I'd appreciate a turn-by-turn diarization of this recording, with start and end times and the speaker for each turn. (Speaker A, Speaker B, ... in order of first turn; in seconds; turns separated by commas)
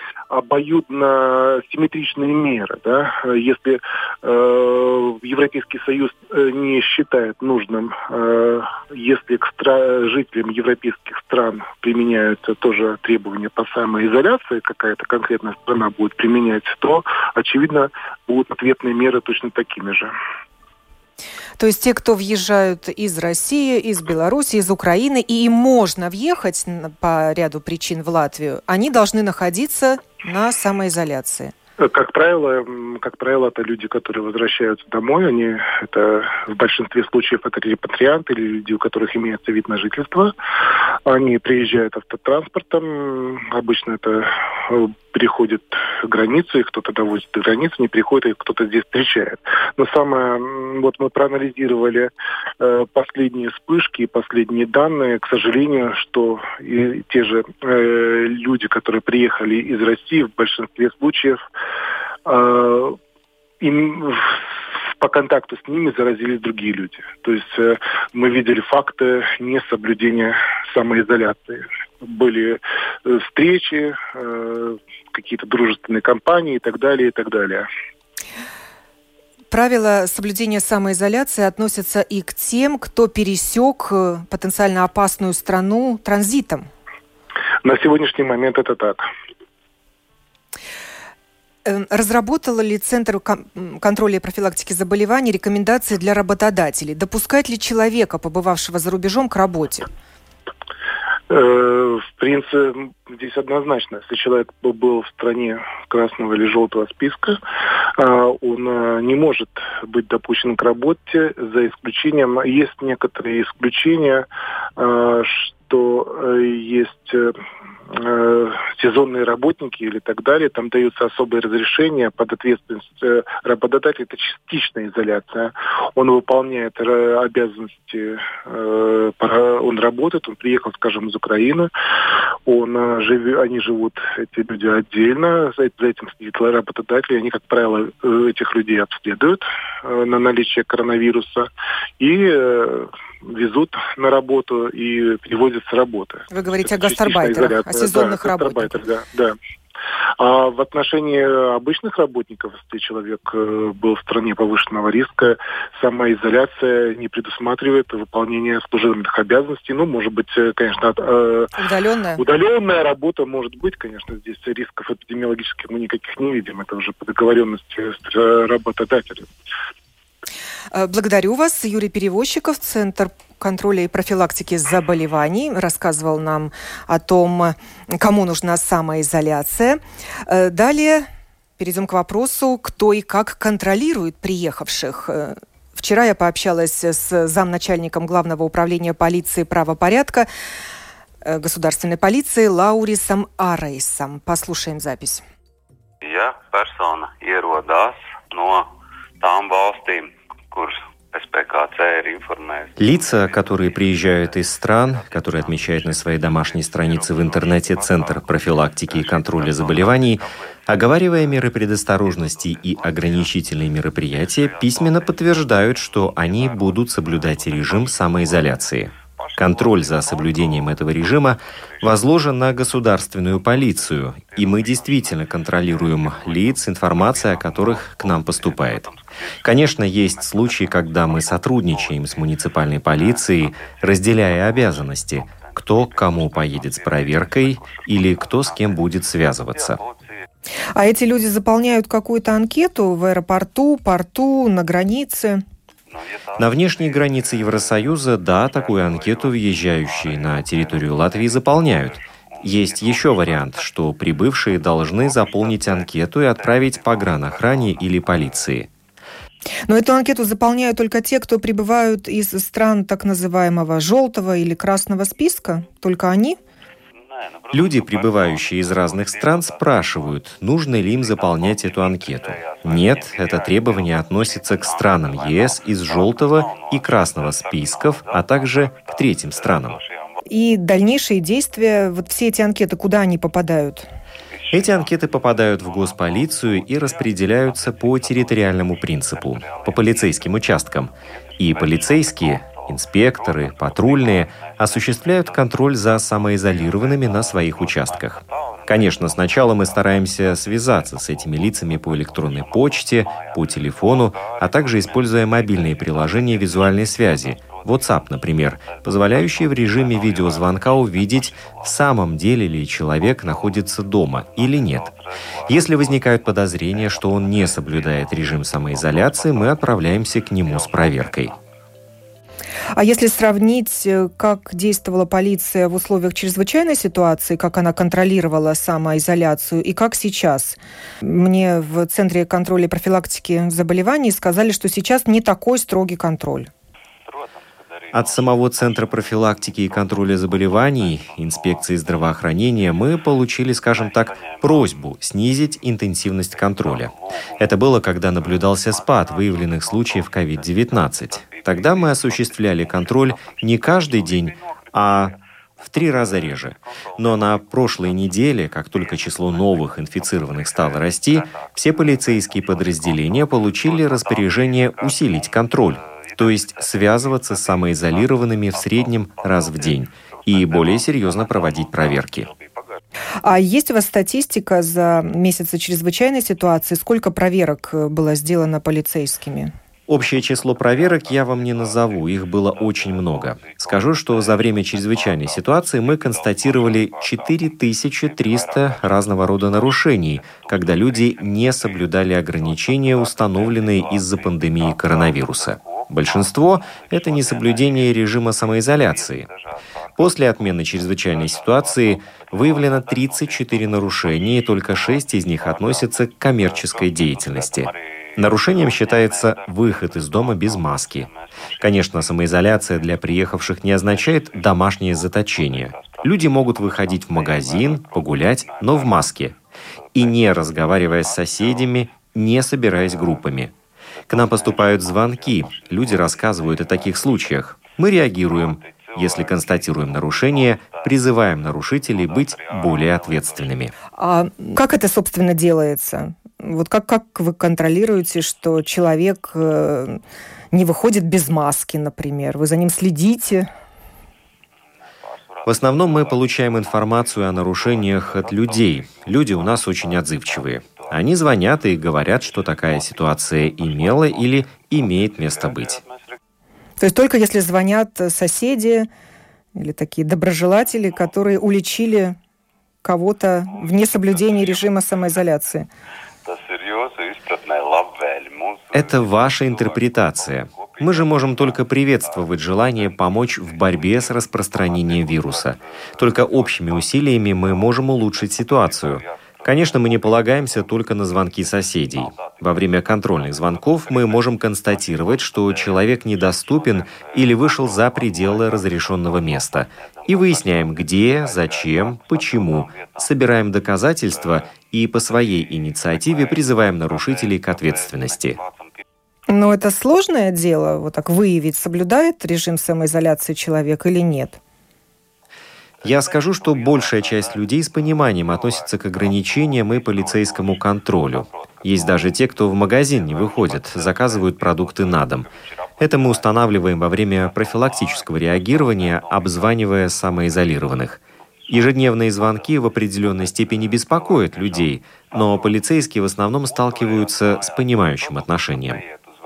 Speaker A: 0.3-20.1, Speaker B: 21.6-31.5, Speaker A: 31.8-40.3, Speaker A: 41.1-61.4, Speaker A: 62.2-63.0, Speaker A: 63.6-77.7, Speaker B: 79.5-86.7, Speaker A: 87.6-89.1, Speaker B: 91.7-99.9, Speaker A: 101.3-107.4, Speaker A: 108.0-114.2, Speaker A: 114.8-117.3, Speaker A: 117.9-131.7, Speaker A: 132.5-141.5, Speaker A: 142.0-149.3, Speaker B: 146.3-148.8, Speaker A: 150.2-161.5, Speaker B: 161.6-162.2, Speaker A: 162.2-169.3, Speaker B: 170.7-181.1, Speaker B: 181.6-190.3, Speaker B: 191.2-195.2, Speaker C: 196.0-222.7, Speaker D: 202.8-228.9, Speaker C: 223.2-240.1, Speaker D: 229.4-239.8, Speaker B: 240.8-245.4, Speaker C: 245.9-258.6, Speaker D: 246.4-258.7, Speaker B: 259.7-266.4, Speaker C: 267.0-280.2, Speaker D: 267.5-279.8, Speaker B: 280.3-283.9, Speaker C: 284.3-312.1, Speaker D: 284.5-314.9, Speaker C: 312.9-321.4, Speaker D: 315.5-321.3, Speaker B: 322.8-336.5, Speaker C: 337.0-343.0, Speaker D: 337.9-372.3, Speaker C: 343.6-344.9, Speaker C: 346.3-372.8, Speaker B: 373.2-379.5, Speaker D: 379.9-399.3, Speaker C: 380.0-419.2, Speaker D: 400.0-419.4, Speaker C: 419.8-433.7, Speaker D: 419.9-423.5, Speaker D: 424.1-433.7, Speaker B: 434.0-440.0, Speaker B: 440.5-443.5, Speaker C: 444.8-456.2, Speaker D: 445.5-455.8, Speaker B: 456.8-458.9, Speaker B: 459.5-462.2, Speaker B: 462.8-465.7, Speaker C: 463.5-464.6, Speaker C: 466.2-498.8, Speaker D: 468.7-498.4, Speaker B: 499.3-504.4, Speaker C: 505.8-520.8, Speaker D: 505.8-515.3, Speaker D: 515.8-528.8, Speaker C: 521.4-525.8, Speaker C: 526.4-529.1